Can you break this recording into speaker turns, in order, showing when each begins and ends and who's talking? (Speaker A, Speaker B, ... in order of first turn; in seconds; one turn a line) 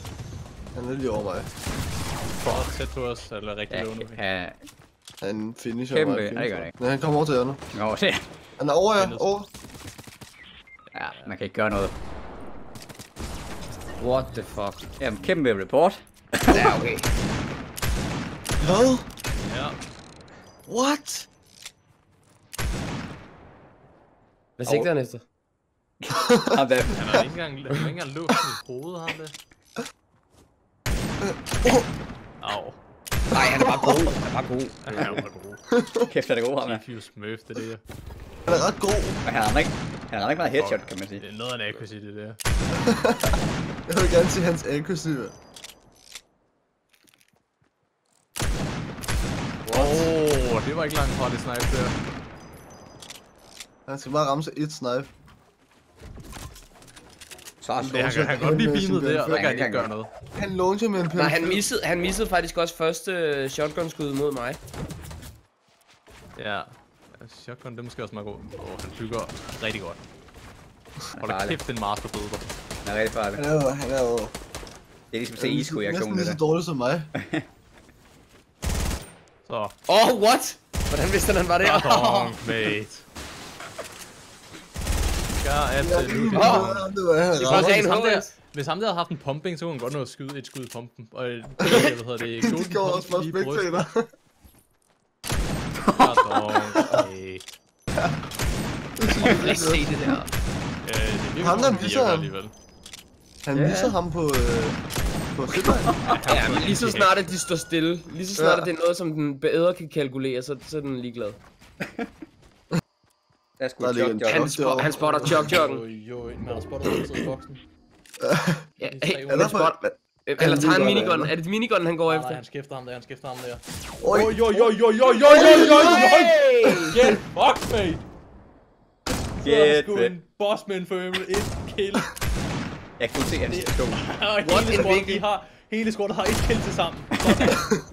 Speaker A: 0.7-1.5
Speaker B: 2.4-4.2
Speaker C: 2.4-2.7
Speaker C: 3.7-4.6
Speaker A: 5.2-7.6
Speaker C: 5.9-6.7
Speaker C: 7.7-8.2
Speaker A: 8.6-9.5
Speaker B: 9.0-9.3
Speaker C: 10.9-11.9
Speaker B: 11.1-11.4
Speaker D: 14.0-14.9
Speaker C: 15.0-16.8
Speaker D: 16.5-17.1
Speaker B: 18.6-18.9
Speaker A: 18.6-19.0
Speaker B: 19.4-20.0
Speaker A: 20.7-21.3
Speaker D: 24.6-25.2
Speaker C: 24.6-24.9
Speaker C: 26.0-27.2
Speaker A: 26.1-26.6
Speaker B: 26.9-29.3
Speaker A: 31.2-31.8
Speaker B: 32.4-32.8
Speaker D: 33.3-35.1
Speaker A: 33.6-34.1
Speaker B: 34.8-35.6
Speaker A: 35.7-36.0
Speaker C: 36.1-36.8
Speaker B: 36.6-37.8
Speaker A: 38.5-39.2
Speaker C: 39.2-41.2
Speaker B: 40.4-42.4
Speaker A: 42.8-45.4
Speaker C: 49.6-50.1
Speaker B: 49.7-52.0
Speaker A: 53.9-55.1
Speaker C: 57.6-58.1
Speaker A: 57.8-61.6
Speaker B: 57.8-60.1
Speaker C: 59.3-59.9
Speaker D: 61.1-64.6
Speaker B: 66.3-70.0
Speaker C: 71.1-71.6
Speaker B: 71.2-72.5
Speaker C: 72.8-73.4
Speaker A: 73.3-74.3
Speaker C: 75.1-76.4
Speaker A: 75.4-77.1
Speaker C: 77.1-77.5
Speaker B: 79.5-79.7
Speaker D: 79.9-82.4
Speaker B: 81.6-83.0
Speaker B: 85.4-93.9
Speaker A: 85.8-87.8
Speaker D: 86.3-86.8
Speaker D: 87.3-88.3
Speaker A: 92.4-94.1
Speaker C: 95.8-96.3
Speaker B: 96.0-97.4
Speaker A: 99.0-99.9
Speaker D: 99.2-100.3
Speaker B: 100.8-102.5
Speaker A: 101.4-102.3
Speaker A: 103.4-104.8
Speaker D: 103.5-104.0
Speaker A: 105.3-106.0
Speaker B: 106.0-107.3
Speaker D: 106.3-111.4
Speaker A: 108.3-108.7
Speaker C: 111.8-112.1
Speaker C: 113.6-114.6
Speaker A: 113.8-115.5
Speaker D: 114.2-115.8
Speaker B: 114.9-117.6
Speaker A: 118.2-118.7
Speaker D: 118.8-122.4
Speaker B: 118.8-119.6
Speaker A: 119.3-121.3
Speaker B: 120.4-121.2
Speaker B: 122.0-128.1
Speaker A: 124.0-124.8
Speaker D: 125.2-127.2
Speaker A: 125.4-125.8
Speaker B: 129.4-132.1
Speaker C: 129.4-130.2
Speaker C: 133.0-134.0
Speaker B: 133.5-137.7
Speaker D: 134.4-135.2
Speaker C: 137.2-137.6